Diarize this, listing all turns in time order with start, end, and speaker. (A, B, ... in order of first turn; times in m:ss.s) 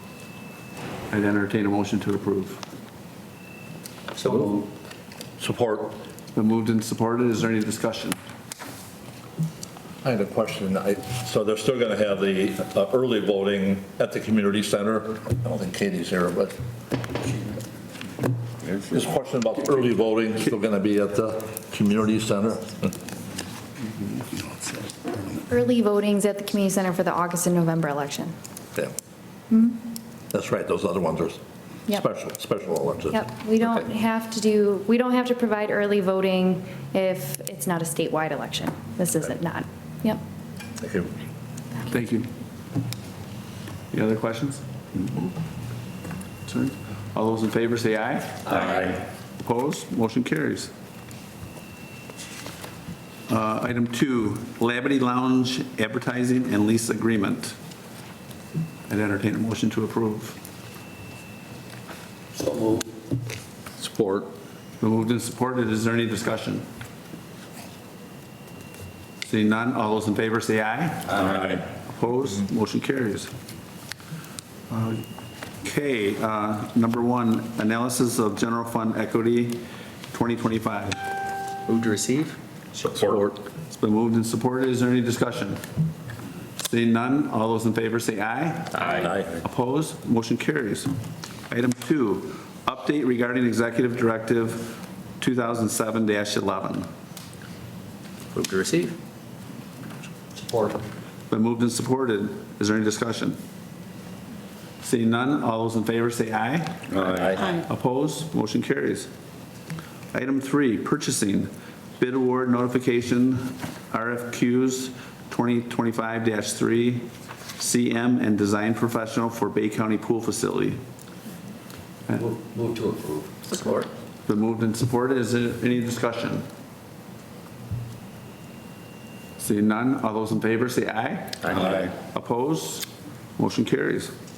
0:01.1-0:02.6 A
0:04.2-0:04.7 B
0:05.4-0:05.9 C
0:06.3-0:08.2 A
0:10.0-0:16.6 C
0:18.8-0:23.0 C
0:25.5-0:28.3 D
0:29.5-0:29.8 D
0:30.3-0:33.7 C
0:33.1-0:40.2 D
0:40.8-0:41.1 C
0:41.8-0:42.3 A
0:43.9-0:44.6 A
0:46.5-0:50.7 A
0:53.3-0:57.6 A
0:58.9-1:00.4 A
1:02.4-1:02.8 B
1:03.8-1:04.3 C
1:04.8-1:06.6 A
1:09.2-1:13.3 A
1:14.7-1:15.0 A
1:15.6-1:21.0 A
1:21.7-1:23.3 B
1:22.8-1:23.2 C
1:23.7-1:25.6 A
1:26.6-1:30.9 A
1:28.8-1:29.2 C
1:31.5-1:36.9 A
1:38.3-1:39.0 B
1:40.4-1:40.8 B
1:41.3-1:43.4 A
1:44.8-1:49.1 A
1:46.9-1:47.6 B
1:50.1-2:00.8 A
2:02.1-2:03.9 B
2:04.2-2:06.4 A
2:09.4-2:14.1 A